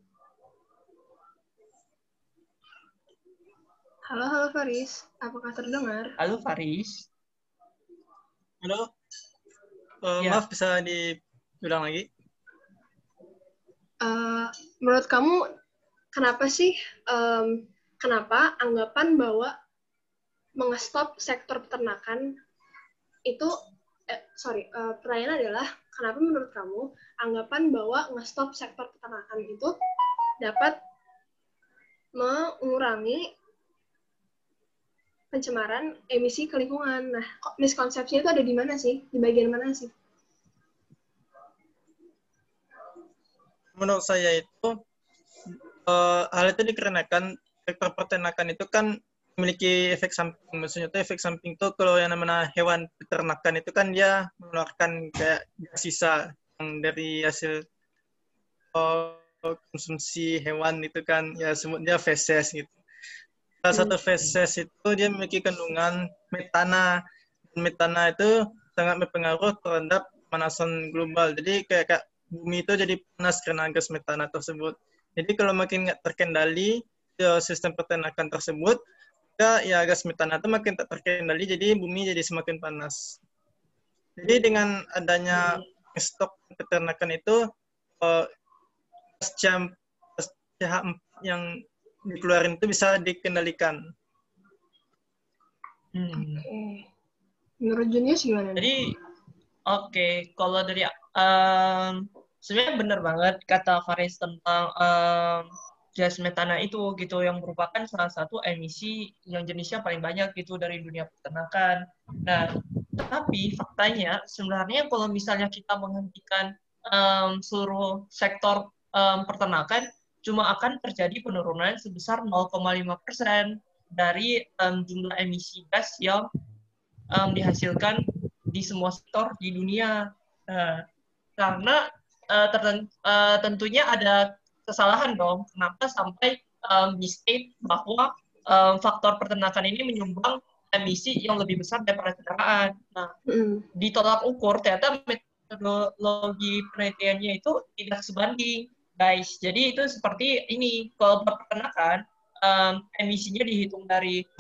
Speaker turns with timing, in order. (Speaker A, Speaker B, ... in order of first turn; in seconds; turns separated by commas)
Speaker A: 4.1-6.1, Speaker B: 6.2-7.0, Speaker C: 8.6-8.9, Speaker C: 10.0-12.1, Speaker A: 14.0-15.4, Speaker A: 16.1-19.5, Speaker A: 20.6-22.3, Speaker A: 23.3-23.5, Speaker A: 24.1-29.7, Speaker A: 30.4-30.8, Speaker A: 32.2-33.2, Speaker A: 35.3-39.9, Speaker C: 43.7-44.8, Speaker C: 45.8-57.6, Speaker C: 58.7-62.7, Speaker C: 63.6-67.0, Speaker C: 67.5-78.8, Speaker C: 79.4-83.2, Speaker C: 84.2-87.4, Speaker C: 88.0-88.3, Speaker C: 89.2-91.5, Speaker C: 92.1-93.8, Speaker B: 95.9-96.5, Speaker A: 96.1-96.8, Speaker A: 97.6-98.7, Speaker B: 98.6-98.9, Speaker B: 99.7-126.2, Speaker B: 127.1-130.8, Speaker B: 131.4-143.1, Speaker A: 143.3-143.7, Speaker B: 143.8-154.2